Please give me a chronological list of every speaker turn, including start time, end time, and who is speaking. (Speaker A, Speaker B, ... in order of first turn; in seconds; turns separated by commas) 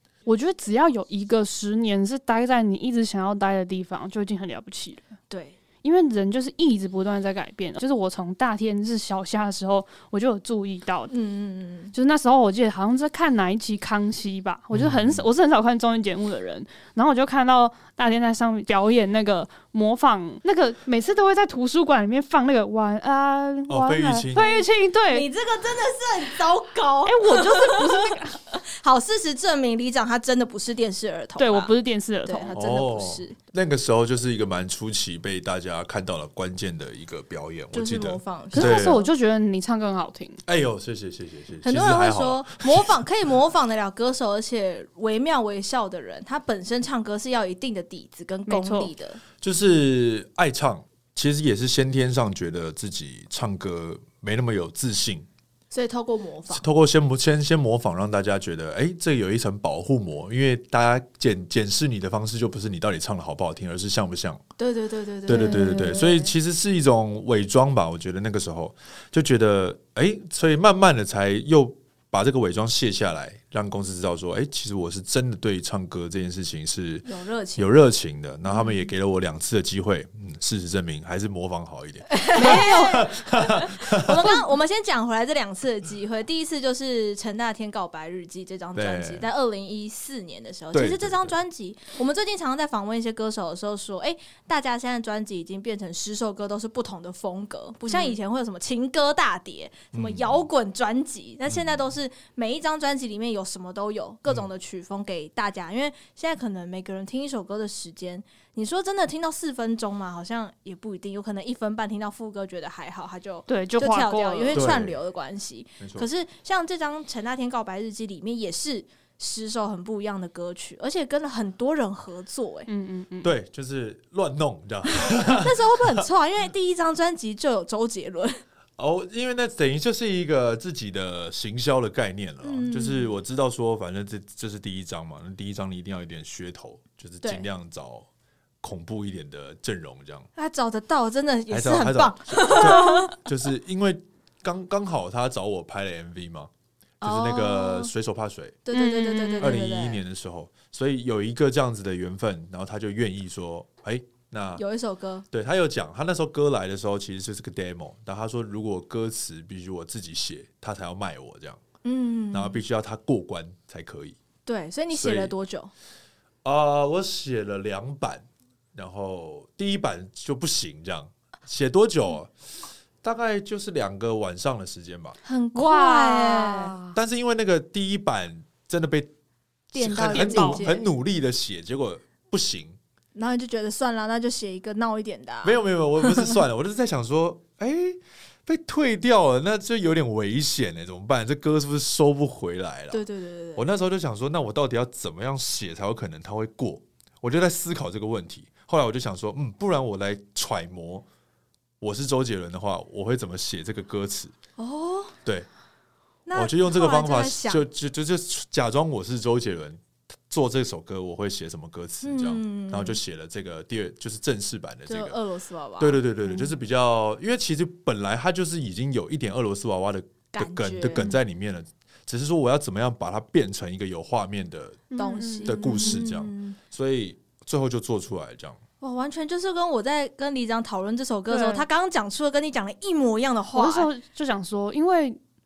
Speaker A: 0.3-5.1, Speaker B: 5.3-5.6, Speaker A: 5.8-11.1, Speaker B: 11.1-11.9, Speaker A: 11.9-25.3, Speaker C: 14.7-15.2, Speaker C: 23.7-24.4, Speaker B: 24.4-31.7, Speaker A: 27.1-28.6, Speaker A: 31.4-32.5, Speaker B: 32.2-33.4, Speaker C: 32.5-39.0, Speaker B: 37.7-39.1, Speaker A: 38.5-40.4, Speaker C: 40.5-42.9, Speaker B: 41.6-49.2, Speaker A: 48.5-48.9, Speaker C: 49.4-55.3, Speaker B: 55.7-56.6, Speaker C: 56.5-64.4, Speaker B: 64.6-66.3, Speaker C: 65.3-84.4, Speaker B: 77.0-77.8, Speaker B: 78.5-78.8, Speaker B: 82.1-122.7, Speaker C: 88.8-89.3, Speaker C: 90.7-91.3, Speaker C: 99.9-100.4, Speaker A: 113.5-114.8, Speaker C: 114.5-115.0, Speaker C: 115.8-116.1, Speaker A: 122.7-123.3, Speaker C: 123.2-126.0, Speaker B: 124.9-128.4, Speaker C: 128.8-138.1, Speaker B: 132.4-133.1, Speaker C: 138.6-140.3, Speaker B: 140.4-143.2, Speaker C: 141.5-146.5, Speaker B: 147.0-147.9, Speaker C: 147.0-148.6, Speaker B: 148.7-150.0, Speaker A: 148.7-149.6, Speaker C: 149.4-154.6, Speaker B: 154.6-155.2, Speaker C: 155.3-161.6, Speaker B: 161.8-162.6, Speaker C: 162.3-164.2, Speaker B: 164.5-165.7, Speaker C: 164.9-165.3, Speaker C: 166.4-172.3, Speaker C: 173.0-175.2, Speaker B: 175.2-176.8, Speaker A: 175.5-177.0, Speaker C: 176.9-179.1, Speaker C: 179.7-182.8, Speaker B: 179.7-180.9, Speaker A: 180.1-180.7, Speaker B: 183.2-186.4, Speaker C: 185.4-193.0, Speaker B: 192.9-193.6, Speaker C: 193.6-201.1, Speaker C: 201.8-204.3, Speaker B: 204.6-205.2, Speaker B: 206.3-207.6, Speaker C: 206.3-215.2, Speaker B: 212.0-213.0, Speaker B: 214.9-216.0, Speaker C: 215.8-224.9, Speaker B: 220.3-221.2, Speaker A: 224.9-226.0, Speaker B: 225.0-226.6, Speaker C: 225.4-228.6, Speaker B: 228.8-233.9, Speaker A: 231.3-231.7, Speaker A: 233.5-235.2